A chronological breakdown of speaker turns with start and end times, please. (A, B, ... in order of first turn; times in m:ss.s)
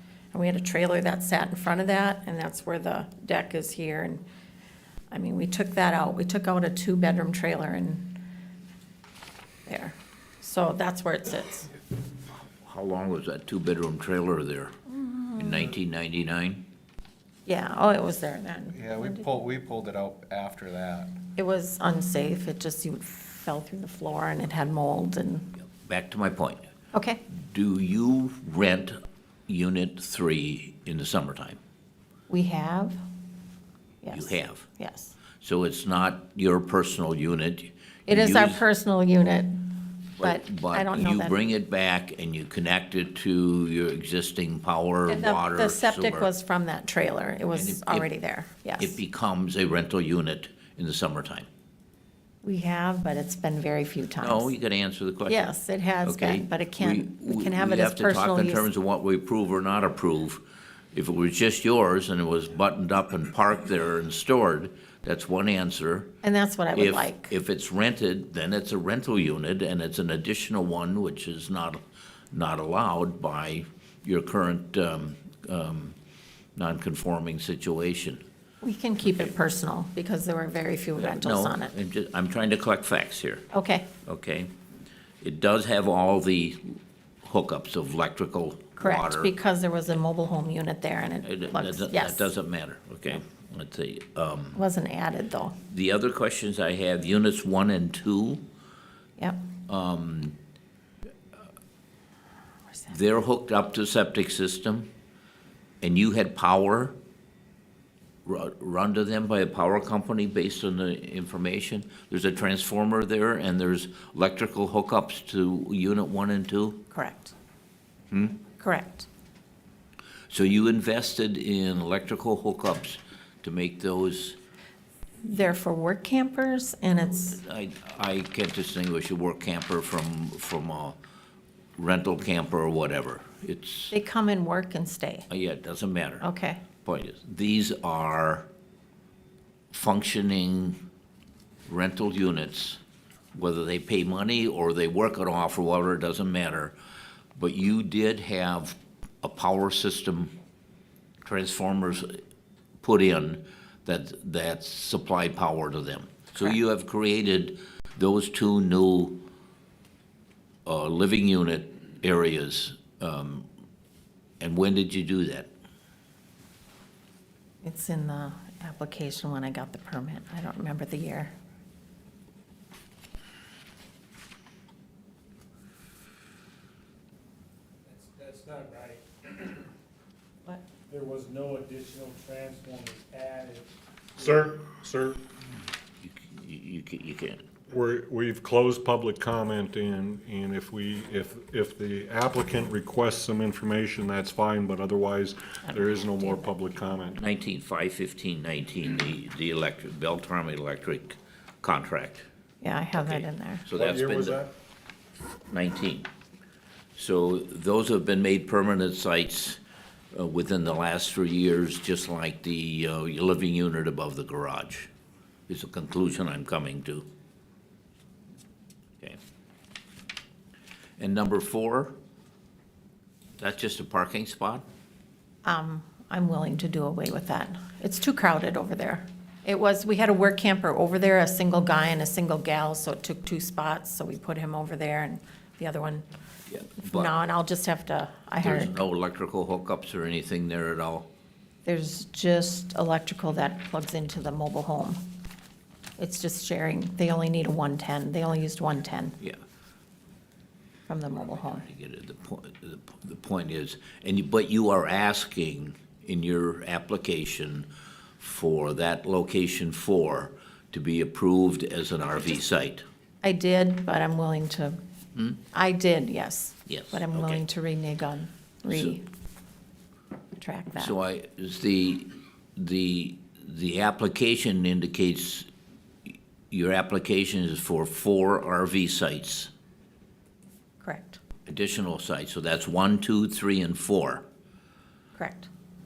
0:00.3-0:04.2 A
0:05.1-0:08.3 A
0:09.7-0:11.7 A
0:12.4-0:14.7 B
0:14.9-0:15.6 A
0:15.4-0:16.6 B
0:17.4-0:19.3 A
0:18.8-0:21.1 C
0:21.3-0:25.5 A
0:25.6-0:26.6 B
0:26.9-0:27.2 A
0:27.3-0:31.6 B
0:32.3-0:33.0 A
0:34.0-0:35.2 A
0:34.1-0:34.7 B
0:35.4-0:38.6 B
0:38.1-0:41.4 A
0:40.2-0:46.3 B
0:45.1-0:49.0 A
0:47.5-0:48.1 B
0:48.8-0:51.5 B
0:52.4-0:54.5 A
0:54.2-0:55.5 B
0:55.3-0:58.7 A
0:56.0-1:00.4 B
1:00.9-1:06.1 B
1:06.2-1:07.3 A
1:06.7-1:11.8 B
1:12.3-1:16.0 B
1:16.6-1:18.2 B
1:18.6-1:21.7 A
1:19.0-1:19.3 B
1:21.0-1:23.5 B
1:23.5-1:23.9 A
1:24.0-1:24.5 B
1:25.2-1:29.3 B
1:28.8-1:32.3 A
1:31.2-1:34.6 B
1:34.5-1:35.6 A
1:35.7-1:38.4 B
1:39.7-1:40.4 B
1:42.9-1:44.9 B
1:45.8-1:46.9 B
1:48.2-1:56.8 B
1:56.9-1:57.3 A
1:58.1-1:58.4 B
1:58.6-1:59.1 A
2:00.3-2:04.4 B
2:05.2-2:07.4 A
2:07.3-2:11.0 B
2:11.8-2:13.9 B
2:13.9-2:15.3 A
2:15.3-2:16.2 B
2:16.2-2:16.6 A
2:16.8-2:18.5 B
2:19.7-2:20.8 B
2:21.7-2:22.8 B
2:23.3-2:26.8 B
2:27.4-2:30.3 B
2:31.2-2:32.1 B
2:32.8-2:39.2 B
2:40.7-2:43.5 B
2:44.4-2:45.5 B
2:47.6-2:51.3 A
2:57.9-2:59.6 D
3:00.9-3:03.7 D
3:04.2-3:05.2 E
3:06.0-3:07.4 B
3:07.7-3:17.2 E
3:15.7-3:16.5 A
3:17.2-3:22.2 B
3:22.6-3:23.7 A
3:23.0-3:24.4 B
3:23.8-3:24.5 E
3:25.5-3:26.1 B
3:27.0-3:29.6 B
3:30.1-3:34.9 B
3:35.5-3:37.1 B
3:41.0-3:41.9 B
3:43.4-3:44.6 B
3:45.4-3:56.1 A
3:56.5-3:57.2 B
3:56.8-3:58.8 A
3:58.4-4:01.1 B
4:01.6-4:05.1 A
4:06.0-4:09.2 A
4:10.9-4:11.6 A
4:11.4-4:17.7 B
4:18.2-4:22.8 B
4:23.2-4:24.8 A
4:25.5-4:29.0 A
4:26.7-4:27.4 B
4:28.7-4:29.0 B
4:30.4-4:31.0 A
4:30.8-4:35.5 B
4:36.5-4:39.5 B
4:40.8-4:41.2 A
4:41.4-4:44.2 B
4:45.1-4:45.5 A